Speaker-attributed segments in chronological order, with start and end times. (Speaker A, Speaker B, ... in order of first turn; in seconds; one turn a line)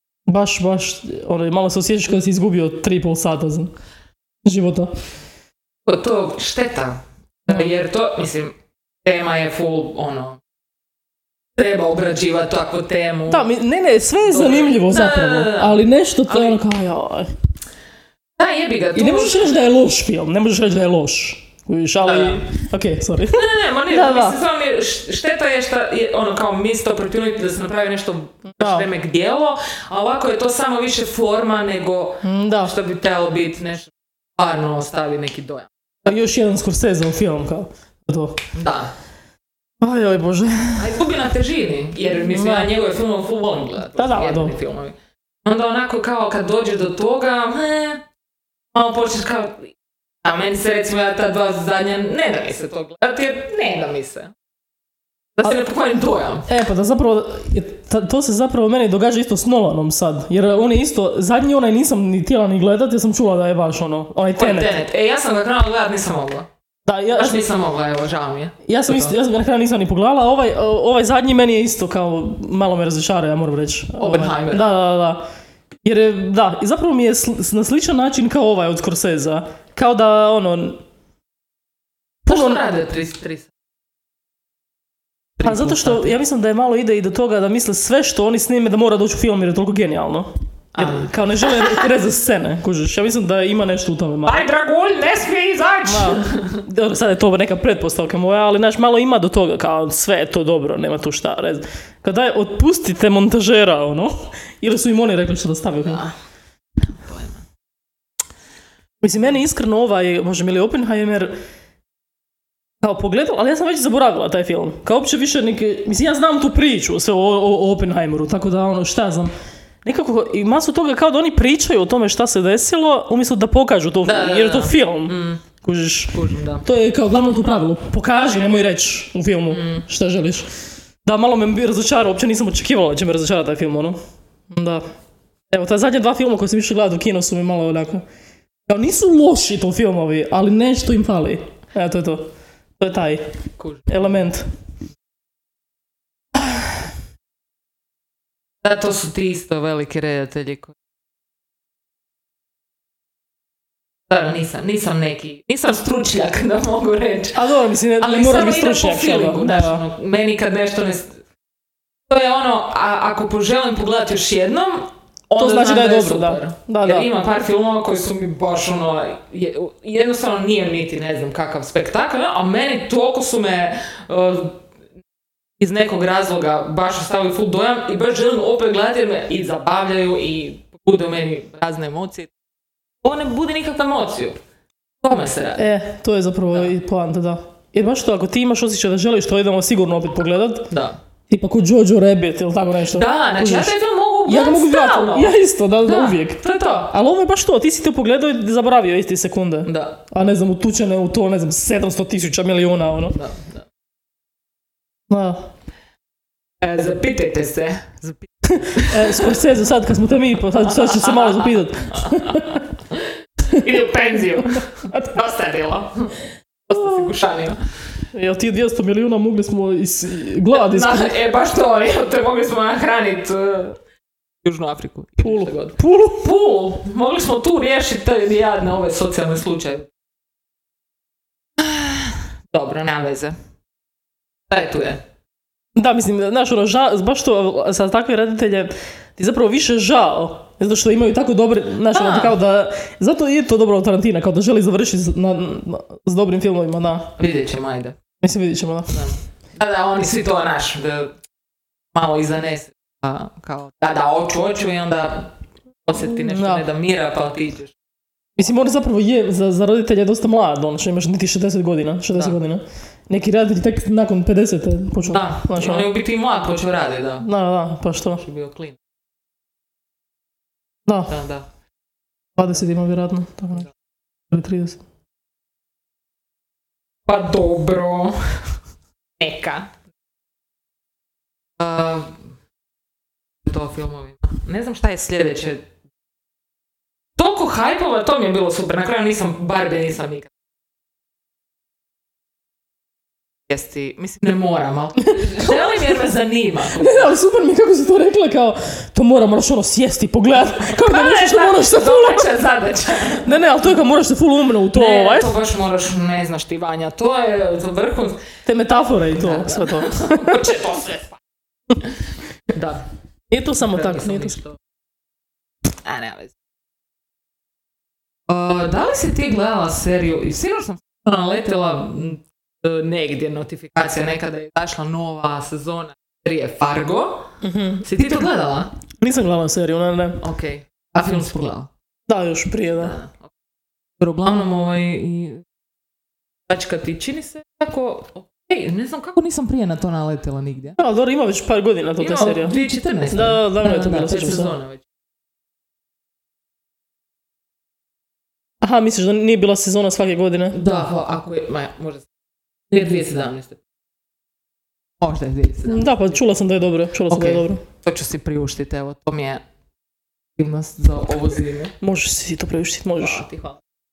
Speaker A: 0.3-3.7
Speaker A: 4.4-4.9
Speaker B: 5.8-10.4
Speaker B: 11.6-13.5
Speaker A: 13.3-17.3
Speaker B: 14.2-16.6
Speaker B: 18.4-19.6
Speaker A: 18.9-24.4
Speaker B: 22.0-22.5
Speaker B: 23.3-35.7
Speaker A: 28.6-28.9
Speaker A: 32.2-32.7
Speaker A: 36.0-38.4
Speaker B: 38.5-38.9
Speaker A: 39.8-41.0
Speaker B: 40.8-48.0
Speaker A: 42.3-42.7
Speaker A: 44.0-44.5
Speaker B: 48.7-54.3
Speaker B: 55.4-56.5
Speaker A: 56.5-64.8
Speaker B: 64.3-66.5
Speaker A: 66.8-67.4
Speaker B: 67.1-69.1
Speaker A: 68.7-75.2
Speaker B: 74.0-74.6
Speaker A: 75.8-80.8
Speaker A: 82.2-82.7
Speaker B: 82.3-83.5
Speaker B: 85.4-86.1
Speaker A: 85.4-94.5
Speaker B: 90.7-91.1
Speaker B: 94.2-96.6
Speaker A: 95.8-106.1
Speaker B: 106.9-107.4
Speaker A: 109.0-111.3
Speaker A: 112.8-119.3
Speaker A: 119.8-130.5
Speaker B: 124.0-125.4
Speaker B: 126.1-126.7
Speaker B: 129.5-129.8
Speaker A: 131.0-134.0
Speaker A: 134.5-134.8
Speaker A: 135.5-138.0
Speaker A: 138.7-143.2
Speaker B: 143.6-143.9
Speaker A: 143.9-144.5
Speaker B: 148.6-150.7
Speaker B: 154.1-157.4
Speaker A: 157.3-159.8
Speaker B: 158.0-161.2
Speaker B: 162.1-174.6
Speaker A: 165.4-167.1
Speaker B: 175.6-182.3
Speaker B: 183.0-184.4
Speaker B: 185.0-185.7
Speaker A: 185.6-190.7
Speaker B: 190.7-191.0
Speaker A: 191.3-203.2
Speaker B: 192.9-196.9
Speaker B: 199.7-200.0
Speaker B: 203.1-203.6
Speaker A: 205.1-205.5
Speaker B: 206.6-209.3
Speaker A: 208.8-212.6
Speaker B: 210.7-216.1
Speaker B: 216.7-217.6
Speaker A: 218.1-221.1
Speaker B: 220.5-223.8
Speaker B: 224.4-229.9
Speaker A: 225.2-226.3
Speaker B: 231.6-233.3
Speaker B: 234.5-235.0
Speaker A: 235.8-247.1
Speaker B: 241.9-242.3
Speaker B: 247.2-247.9
Speaker A: 248.2-249.0
Speaker B: 248.9-251.1
Speaker B: 251.9-255.3
Speaker B: 255.8-257.7
Speaker A: 256.0-256.6
Speaker A: 258.4-265.9
Speaker B: 265.0-267.2
Speaker A: 267.2-268.2
Speaker B: 268.2-268.8
Speaker A: 270.9-271.1
Speaker B: 271.1-271.5
Speaker A: 272.4-273.7
Speaker A: 274.3-274.8
Speaker B: 277.1-278.5
Speaker B: 279.2-279.7
Speaker B: 281.6-282.2
Speaker B: 283.4-285.7
Speaker B: 287.2-290.3
Speaker B: 293.5-297.1
Speaker A: 295.2-295.5
Speaker A: 296.8-302.3
Speaker B: 300.7-303.3
Speaker A: 303.2-305.3
Speaker B: 304.7-308.2
Speaker A: 308.4-310.4
Speaker B: 309.1-311.2
Speaker B: 312.5-312.8
Speaker A: 313.3-314.4
Speaker B: 313.6-314.6
Speaker B: 315.8-316.3
Speaker B: 318.3-327.3
Speaker A: 327.4-327.9
Speaker B: 327.8-328.7
Speaker A: 329.0-330.2
Speaker B: 330.2-331.7
Speaker A: 332.1-333.0
Speaker B: 332.8-333.3
Speaker B: 334.0-335.4
Speaker B: 336.5-340.8
Speaker A: 340.8-344.6
Speaker B: 342.0-344.8
Speaker A: 348.6-350.6
Speaker B: 350.5-352.1
Speaker B: 352.7-353.6
Speaker B: 355.0-356.1
Speaker A: 355.7-357.6
Speaker B: 357.1-359.4
Speaker B: 360.4-361.7
Speaker A: 361.8-363.2
Speaker B: 363.0-363.6